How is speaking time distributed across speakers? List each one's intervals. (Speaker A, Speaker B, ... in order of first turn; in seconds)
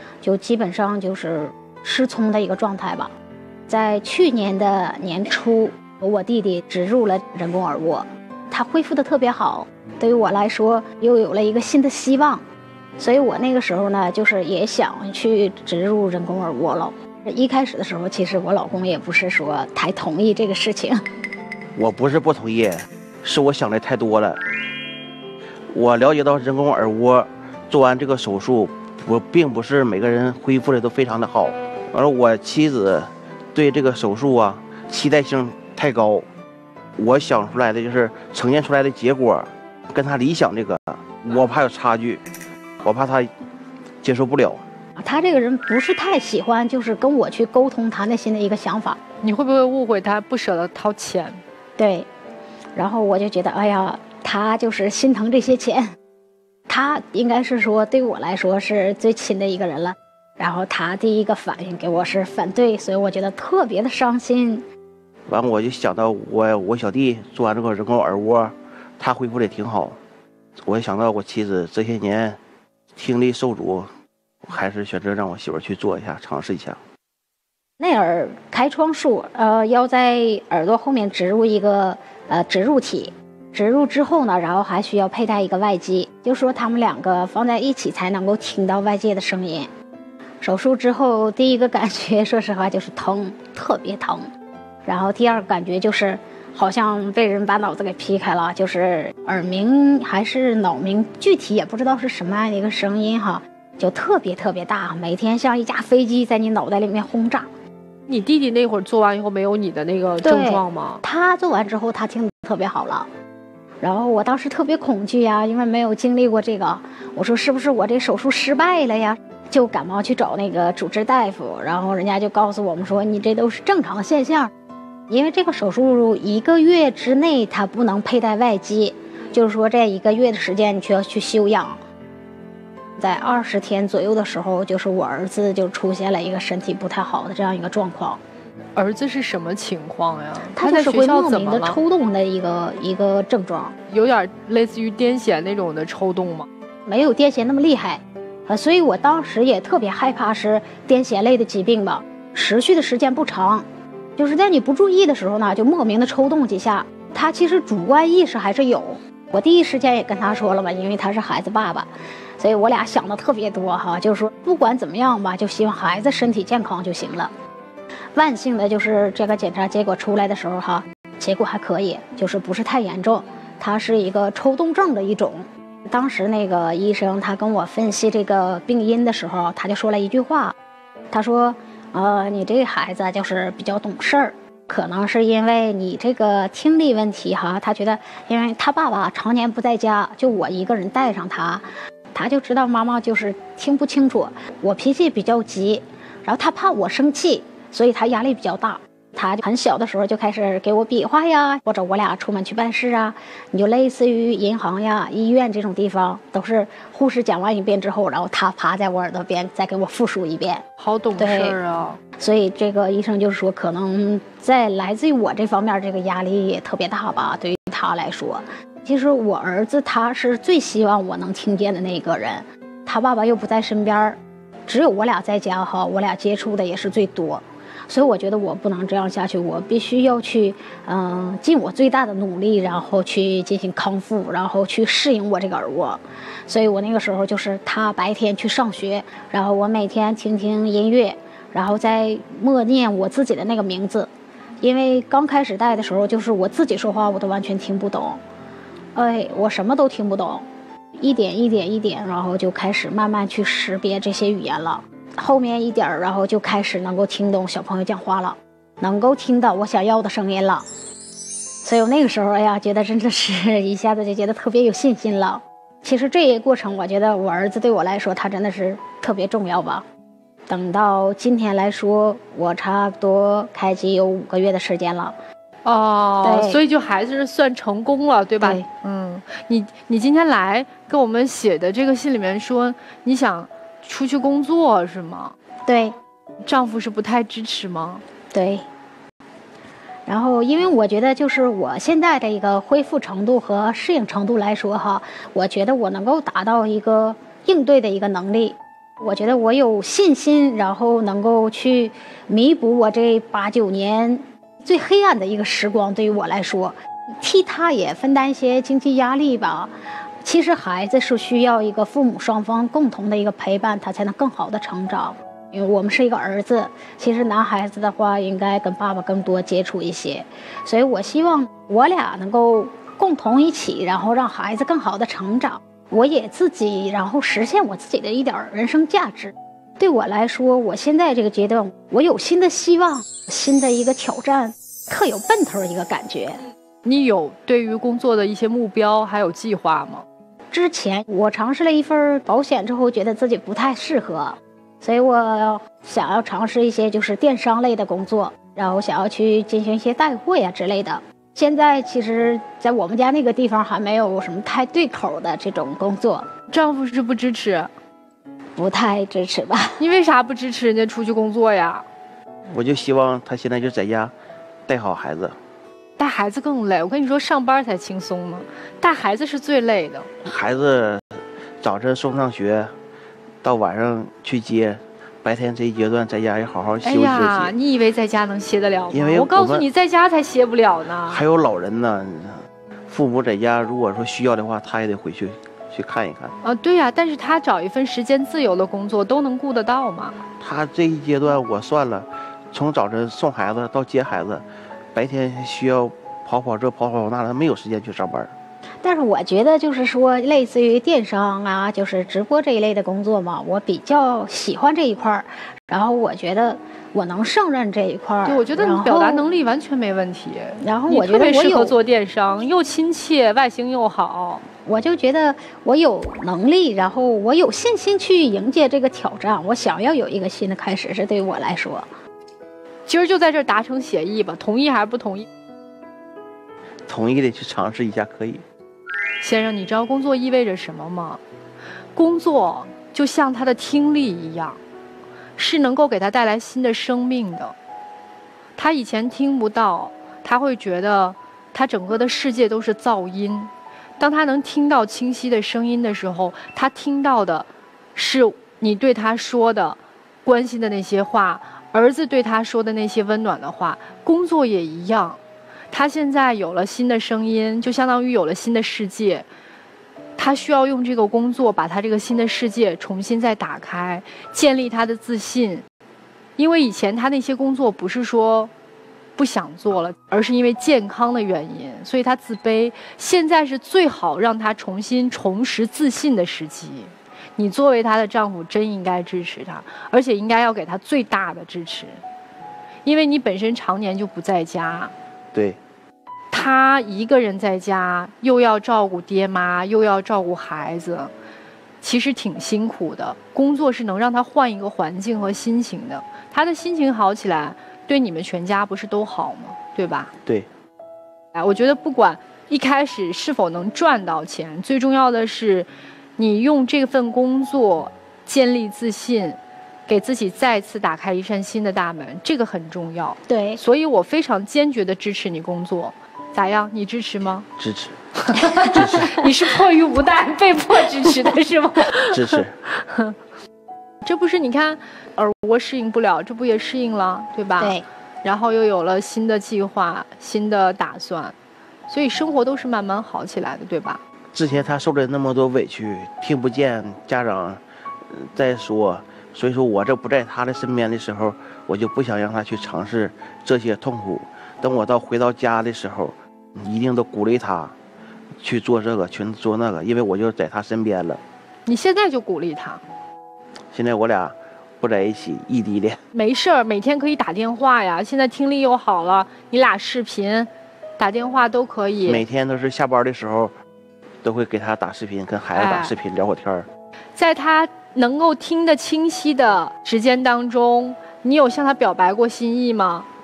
Speaker A: 0.2-3.1, 3.7-12.4, 13.0-21.0, 45.0-49.0, 51.8-52.1, 52.7-55.9, 56.7-64.6, 77.8-89.7, 90.4-94.3, 94.8-107.5, 110.2-113.1, 113.8-124.5, 125.1-131.8, 133.0-138.2, 140.5-143.7, 146.9-167.3, 168.2-180.5, 181.1-210.6, 211.2-211.6, 212.2-248.2, 248.9-260.7, 261.6-269.9, 270.5-275.2, 276.2-276.6, 278.4-278.6, 285.6-285.9, 288.3-288.6, 290.1-336.4, 340.5-356.3, 358.6-359.8, 398.8-409.2, 410.6-411.8, 414.6-421.9, 513.2-513.6, 527.6-527.8
Speaker B: 21.8-24.4, 25.7-36.2, 37.0-42.2, 42.8-43.3, 44.0-44.6, 65.3-70.0, 70.6-72.4, 73.0-73.9, 74.5-76.8, 362.5-364.1, 364.7-365.3, 370.2-371.1, 371.6-372.7, 373.4-377.5, 378.9-379.6, 381.1-386.3, 390.4-398.3, 426.9-428.4, 517.6-519.2, 522.1-522.5, 534.3-537.6, 538.1-547.7, 548.4-551.2, 553.7-556.0, 562.0-563.5, 564.2-566.7
Speaker C: 49.2-51.4, 108.1-111.0, 138.8-141.8, 143.9-146.5, 210.8-212.0, 275.6-285.3, 286.4-288.0, 336.8-340.0, 356.5-357.7, 359.8-361.8, 366.0-370.1, 376.8-381.2, 386.4-390.1, 408.2-414.4, 422.9-425.2, 429.2-431.2, 431.9-434.6, 435.4-437.5, 438.6-455.2, 455.7-459.2, 460.2-465.6, 466.4-468.5, 469.1-482.0, 482.8-484.9, 486.3-491.1, 491.8-500.1, 501.3-517.5, 518.3-523.1, 524.0-531.3, 531.9-534.0, 551.6-552.8, 556.1-562.2, 565.5-565.9, 567.1-573.1